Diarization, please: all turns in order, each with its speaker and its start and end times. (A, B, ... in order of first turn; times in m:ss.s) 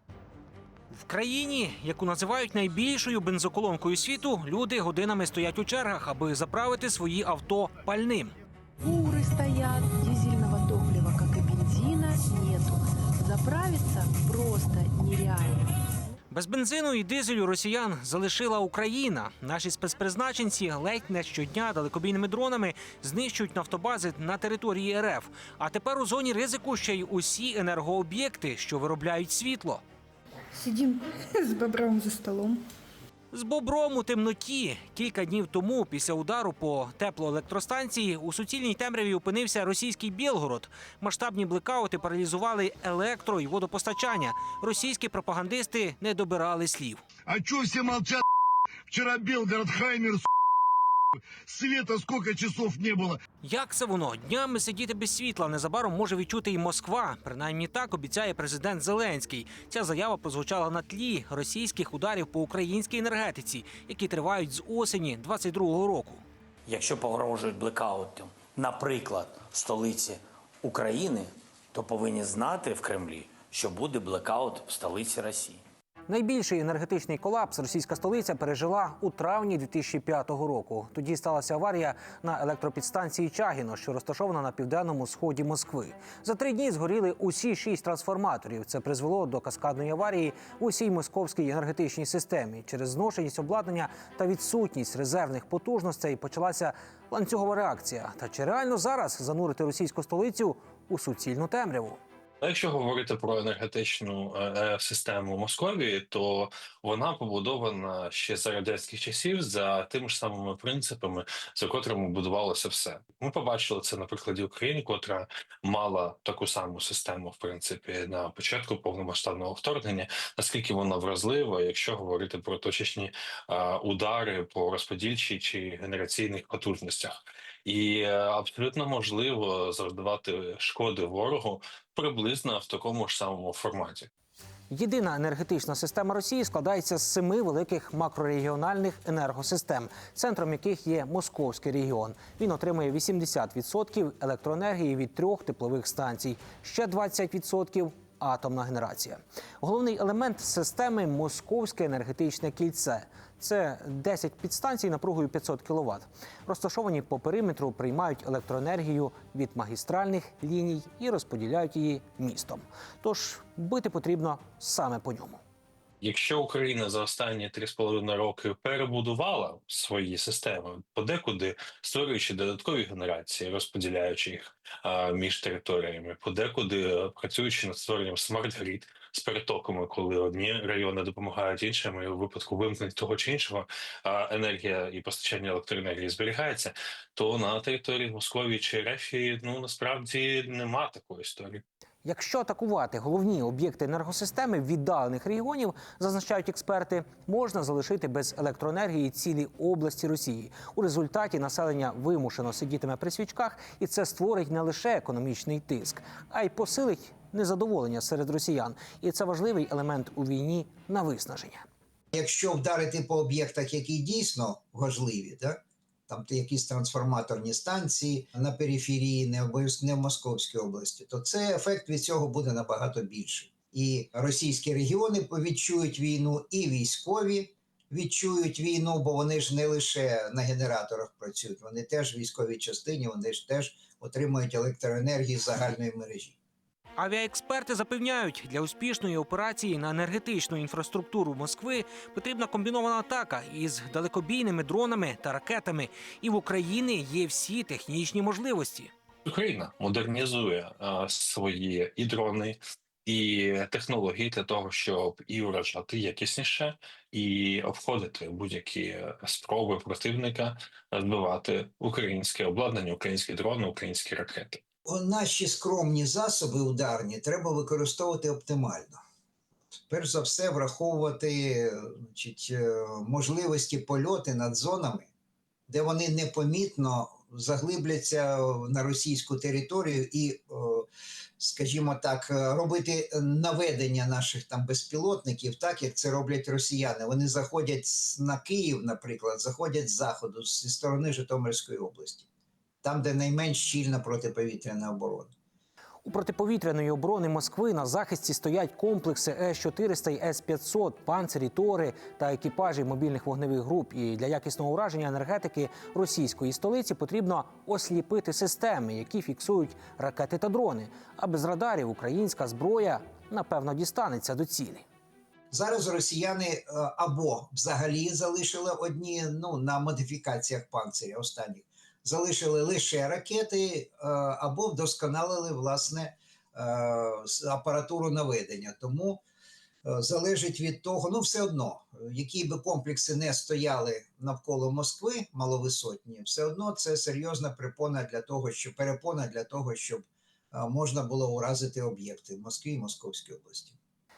0:00.9-0:08.4 A
0:08.8-0:15.7 B
0:16.3-0:29.8 A
0:30.6-0:32.6 C
0:33.3-0:47.0 A
0:47.3-0:48.2 D
0:48.9-0:50.3 D
0:51.4-0:53.2 D
0:53.4-1:06.2 A
1:06.7-1:15.6 E
1:16.1-1:42.0 A
1:42.4-2:14.1 F
2:14.7-2:45.4 A
2:46.0-3:11.6 F
3:12.0-3:31.6 A
3:32.1-3:56.4 G
3:57.0-4:08.9 A
4:09.2-4:24.6 F
4:24.9-4:29.0 G
4:29.9-4:35.1 G
4:35.7-4:40.9 G
4:41.4-4:52.3 G
4:52.8-4:55.3 G
4:56.0-5:14.8 A
5:15.5-5:29.2 G
5:29.8-5:43.8 G